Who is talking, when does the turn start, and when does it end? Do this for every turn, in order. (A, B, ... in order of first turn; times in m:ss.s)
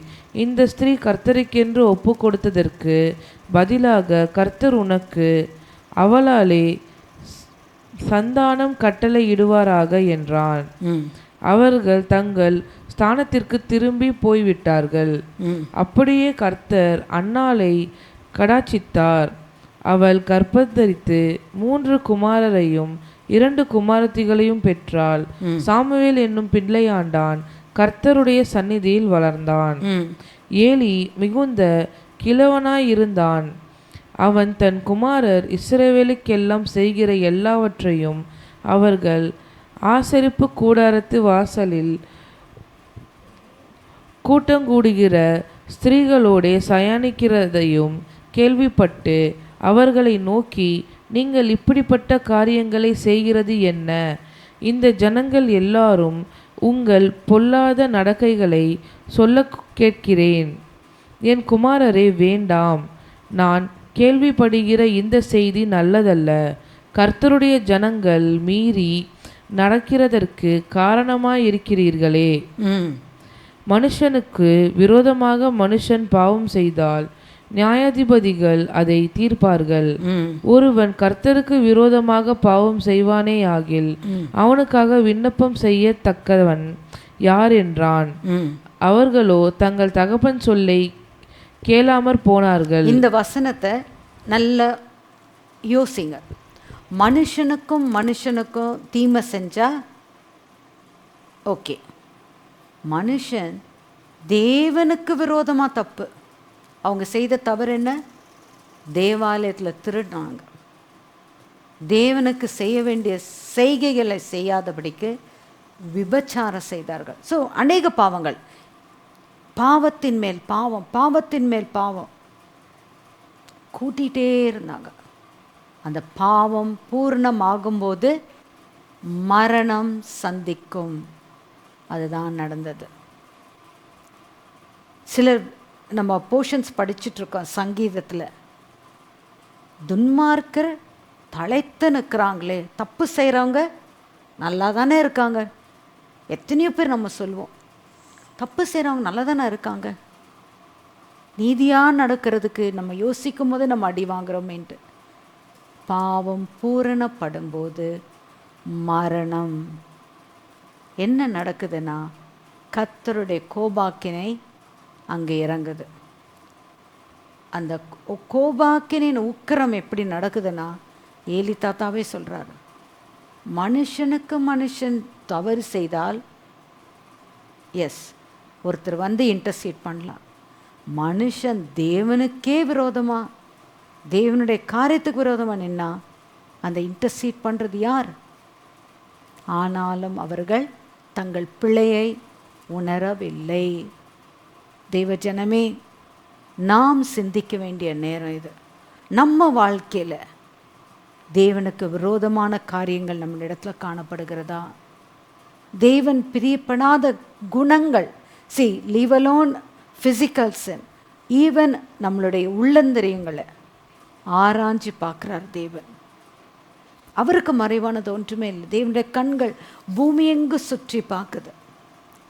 0:00.4-0:03.0 A
0:03.5-0:05.3 A
0:06.0-0:06.6 A
0:08.1-0:10.6 A
0:10.8-0:11.1 B
0:11.5-0:15.2 A
0:15.4-0:15.7 B
0:15.8-0:17.8 A
0:18.4-0:19.3 A
0:19.9-0:29.8 A
0:29.8-0:30.1 B
0:30.6-0:31.7 A
0:32.2-0:33.5 A
0:34.2-0:38.2 A
0:38.7-0:39.2 A
0:39.9-0:41.9 A
0:44.3-0:45.2 A
0:45.8-0:54.0 A
0:54.7-1:00.5 A
1:01.3-1:02.8 A
1:03.4-1:06.4 A
1:07.0-1:08.9 A
1:09.6-1:12.3 A
1:12.6-1:13.0 B
1:13.7-1:17.0 A
1:17.6-1:19.9 A
1:20.0-1:20.4 B
1:20.5-1:23.9 A
1:24.1-1:24.3 B
1:24.4-1:26.6 A
1:27.3-1:28.1 A
1:28.3-1:28.6 B
1:28.9-1:30.8 A
1:31.7-1:33.0 A
1:32.9-1:33.7 B
1:34.3-1:34.7 B
1:35.7-1:36.2 B
1:37.0-1:39.7 B
1:41.5-1:41.8 B
1:42.9-1:43.6 B
1:44.3-1:46.1 B
1:46.9-1:48.0 B
1:49.0-1:50.5 B
1:51.9-1:55.1 B
1:55.9-1:58.4 B
1:59.6-2:02.1 B
2:03.8-2:04.9 B
2:05.8-2:08.1 B
2:09.2-2:11.0 B
2:11.9-2:12.9 B
2:15.1-2:15.4 B
2:16.0-2:18.3 B
2:19.9-2:20.7 B
2:21.3-2:23.6 B
2:24.4-2:25.5 B
2:26.3-2:27.5 B
2:28.4-2:29.9 B
2:31.4-2:34.8 B
2:35.9-2:37.9 B
2:38.8-2:39.6 B
2:41.0-2:42.0 B
2:42.7-2:44.3 B
2:45.1-2:45.9 B
2:47.6-2:50.7 B
2:51.3-2:52.6 B
2:53.6-2:56.2 B
2:57.8-2:58.1 B
2:58.7-3:00.2 B
3:01.0-3:03.2 B
3:04.2-3:05.9 B
3:06.6-3:08.1 B
3:09.6-3:12.1 B
3:12.7-3:13.8 B
3:14.9-3:15.7 B
3:16.7-3:18.5 B
3:19.2-3:20.2 B
3:21.4-3:24.7 B
3:25.8-3:30.8 B
3:31.4-3:33.4 B
3:34.4-3:35.8 B
3:37.2-3:41.5 B